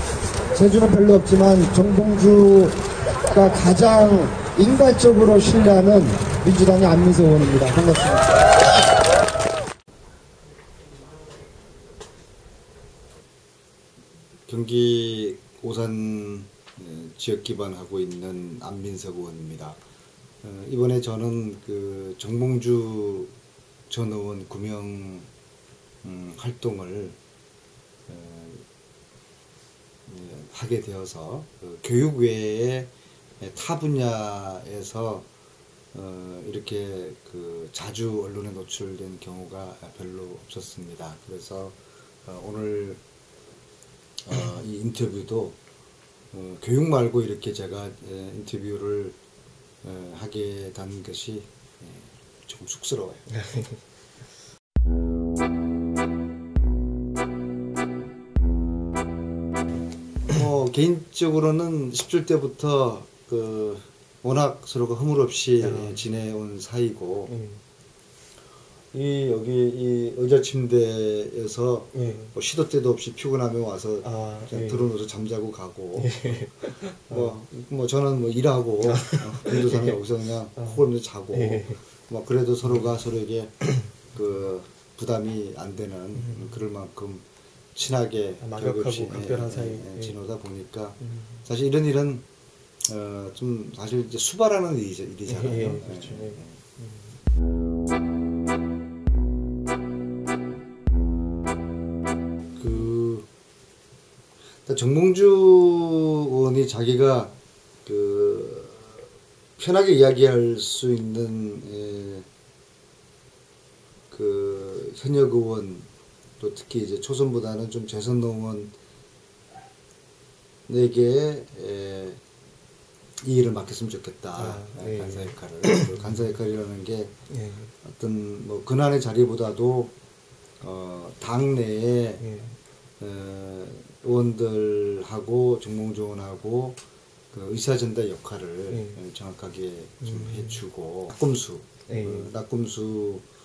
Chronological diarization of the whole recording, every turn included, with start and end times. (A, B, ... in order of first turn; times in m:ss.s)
0:00.5-0:02.7 A
0:00.8-0:01.4 B
0:03.3-0:08.2 A
0:06.7-0:07.0 B
0:14.5-0:19.8 B
0:20.4-0:23.3 B
0:23.9-0:25.3 B
0:26.0-0:27.2 B
0:28.1-0:28.6 B
0:30.1-0:35.3 B
0:35.9-0:43.0 B
0:44.2-0:45.6 B
0:46.3-0:49.2 B
0:49.8-0:53.4 B
0:53.3-0:53.8 C
1:00.3-1:07.3 B
1:05.6-1:06.0 C
1:07.3-1:07.6 C
1:08.9-1:16.4 B
1:11.9-1:12.3 C
1:14.0-1:14.9 C
1:16.0-1:17.4 C
1:17.1-1:32.2 B
1:18.8-1:20.0 C
1:20.6-1:21.8 C
1:22.6-1:22.9 C
1:26.2-1:26.5 C
1:28.4-1:30.2 C
1:31.0-1:31.4 C
1:32.9-1:36.6 B
1:35.3-1:37.1 C
1:42.6-1:43.3 B
1:44.6-1:49.0 B
1:49.6-1:52.3 B
1:54.1-1:55.9 B
1:56.4-1:58.7 B
2:00.7-2:02.2 B
2:03.2-2:07.1 B
2:04.4-2:06.3 C
2:07.3-2:07.7 C
2:07.8-2:09.9 B
2:10.6-2:12.3 B
2:12.2-2:12.6 C
2:13.0-2:16.8 B
2:17.3-2:23.2 B
2:18.7-2:19.0 C
2:20.0-2:20.6 C
2:21.9-2:22.3 C